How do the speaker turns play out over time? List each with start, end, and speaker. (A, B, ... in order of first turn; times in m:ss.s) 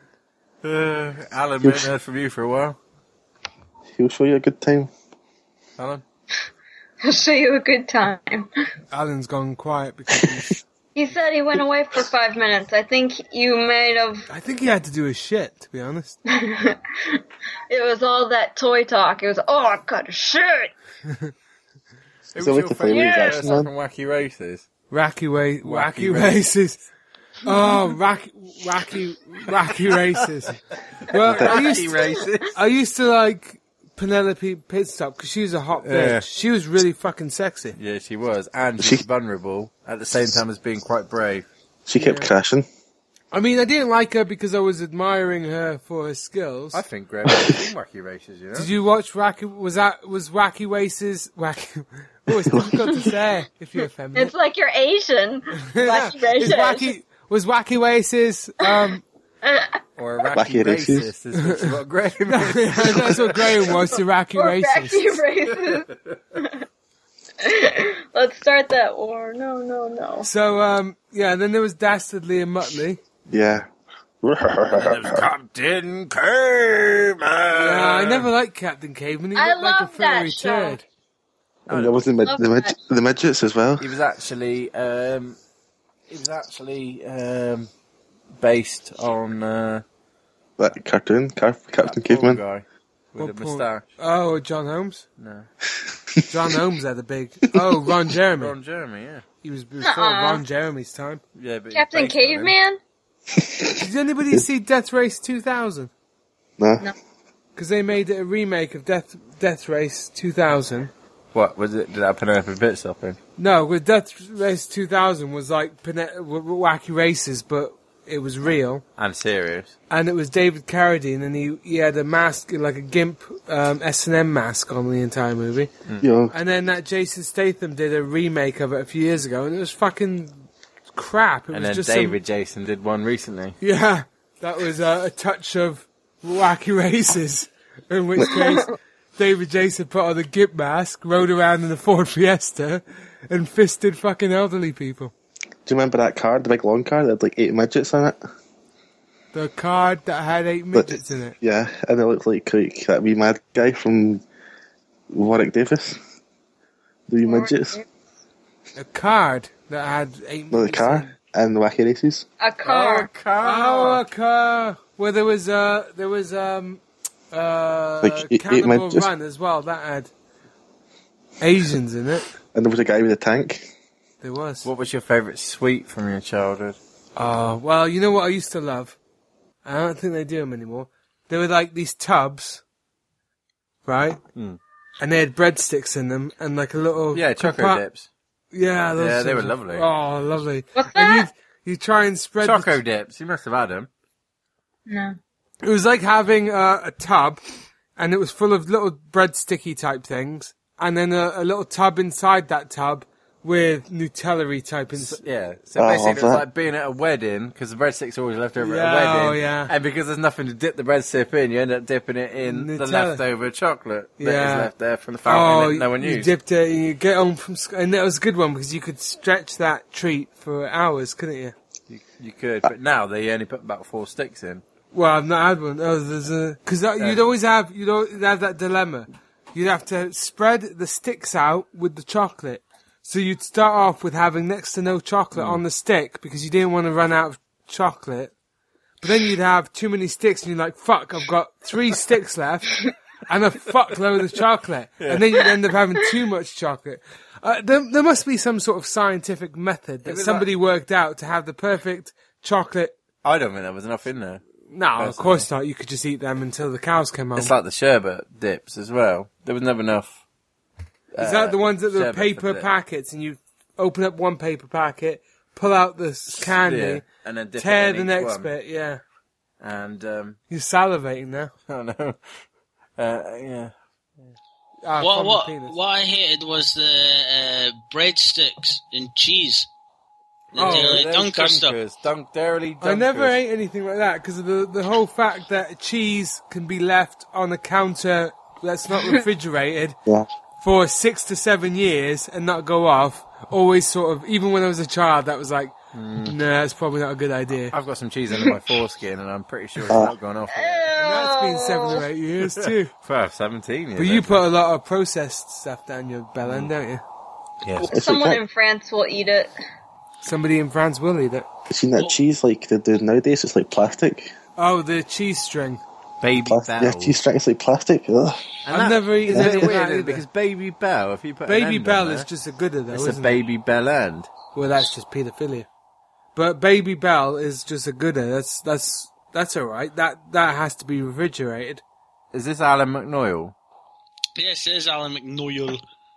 0:00.6-0:02.8 A
0:01.6-0:01.9 B
0:03.9-0:04.9 B
0:05.8-0:06.0 A
0:07.0-0:08.5 C
0:08.9-0:10.5 D
0:10.1-0:10.5 B
0:11.0-0:14.3 C
0:14.3-0:16.2 D
0:16.3-0:20.7 C
0:22.3-0:24.6 A
0:22.4-0:23.7 B
0:22.9-0:23.6 C
0:24.9-0:26.8 D
0:25.6-0:26.5 A
0:27.4-0:30.6 D
0:31.1-0:32.0 D
0:31.2-0:32.6 A
0:31.2-0:31.6 B
0:31.9-0:32.2 C
0:32.5-0:37.8 D
0:35.8-0:36.2 A
0:37.8-0:41.5 A
0:41.9-0:42.7 B
0:42.0-0:42.3 D
0:43.3-0:46.8 D
0:46.7-0:48.7 A
0:47.3-0:47.6 B
0:48.6-0:54.3 D
0:52.3-0:53.1 B
0:54.1-0:56.9 C
0:55.7-0:59.0 D
0:59.4-0:59.8 C
1:00.0-1:03.2 A
1:00.3-1:01.1 B
1:01.4-1:01.7 D
1:02.3-1:05.2 D
1:04.4-1:06.6 C
1:07.4-1:10.3 C
1:10.2-1:13.0 D
1:13.3-1:13.7 B
1:14.2-1:15.3 B
1:14.7-1:18.3 A
1:17.5-1:20.8 D
1:19.4-1:20.8 C
1:21.7-1:22.0 A
1:21.7-1:24.0 B
1:22.2-1:22.8 C
1:23.8-1:25.4 A
1:26.1-1:27.7 A
1:28.4-1:29.8 A
1:30.6-1:32.4 B
1:31.8-1:33.8 A
1:33.2-1:35.0 D
1:35.2-1:35.5 A
1:36.3-1:38.6 D
1:38.4-1:39.2 A
1:39.4-1:41.2 D
1:39.8-1:40.4 C
1:41.4-1:42.6 A
1:41.7-1:42.8 C
1:43.4-1:44.4 B
1:43.8-1:45.9 D
1:46.6-1:46.9 B
1:47.6-1:50.9 D
1:51.3-1:53.2 A
1:53.4-1:58.8 D
1:59.0-1:59.8 A
1:59.9-2:05.7 D
2:06.0-2:06.3 B
2:06.3-2:12.2 D
2:11.5-2:13.6 A
2:13.6-2:25.1 D
2:18.3-2:18.6 C
2:25.7-2:28.2 B
2:29.3-2:31.4 D
2:30.7-2:34.2 B
2:35.1-2:36.0 B
2:37.1-2:37.8 B
2:37.2-2:37.9 C
2:38.8-2:41.1 D
2:40.5-2:42.3 B
2:42.4-2:43.1 C
2:42.6-2:44.0 A
2:43.4-2:50.1 D
2:48.0-2:49.1 B
2:51.4-2:52.3 D
2:52.5-2:53.7 B
2:54.2-2:54.7 D
2:54.6-2:56.8 A
2:57.2-2:59.0 D
2:59.6-3:02.6 D
3:03.9-3:04.2 D
3:04.4-3:04.6 A
3:05.0-3:07.8 D
3:07.1-3:08.1 A
3:08.5-3:12.8 D
3:09.0-3:09.9 A
3:10.8-3:11.3 C
3:12.4-3:13.9 A
3:14.9-3:15.2 C
3:15.6-3:17.4 D
3:18.0-3:25.2 D
3:24.9-3:36.3 A
3:25.8-3:26.4 B
3:28.6-3:29.7 D
3:32.4-3:33.2 D
3:34.2-3:34.7 D
3:35.2-3:41.5 D
3:41.9-3:44.6 A
3:44.9-3:58.3 D
3:55.3-3:55.6 A
3:59.0-4:13.0 D
4:05.0-4:05.5 A
4:10.0-4:10.5 A
4:13.2-4:14.4 A
4:14.7-4:17.5 D
4:15.0-4:15.5 A
4:17.4-4:20.2 A
4:21.1-4:22.7 A
4:21.2-4:27.0 D
4:26.3-4:28.5 A
4:27.6-4:29.0 D
4:29.6-4:30.4 A
4:30.5-4:31.5 D
4:31.7-4:32.2 A
4:33.0-4:33.7 A
4:34.8-4:35.8 D
4:35.0-4:39.7 E
4:40.5-4:43.4 A
4:40.5-4:41.8 E
4:40.6-4:41.0 D
4:42.8-4:50.0 D
4:50.6-4:57.7 D
4:55.9-4:56.4 A
4:57.7-5:00.9 A
4:59.9-5:00.2 B
5:00.5-5:02.0 C
5:01.0-5:02.9 D
5:02.6-5:04.4 A
5:04.0-5:07.0 D
5:06.4-5:06.7 A
5:07.6-5:07.9 A
5:07.8-5:09.5 C
5:07.9-5:08.4 B
5:10.2-5:11.5 D
5:11.7-5:14.3 B
5:14.6-5:15.8 D
5:16.2-5:17.2 A
5:16.4-5:18.5 B
5:18.7-5:22.3 A
5:18.7-5:20.2 D
5:19.3-5:19.7 B
5:21.5-5:23.4 D
5:22.9-5:24.3 A
5:24.6-5:25.7 D
5:26.4-5:31.8 D
5:32.3-5:33.5 A
5:34.4-5:35.8 E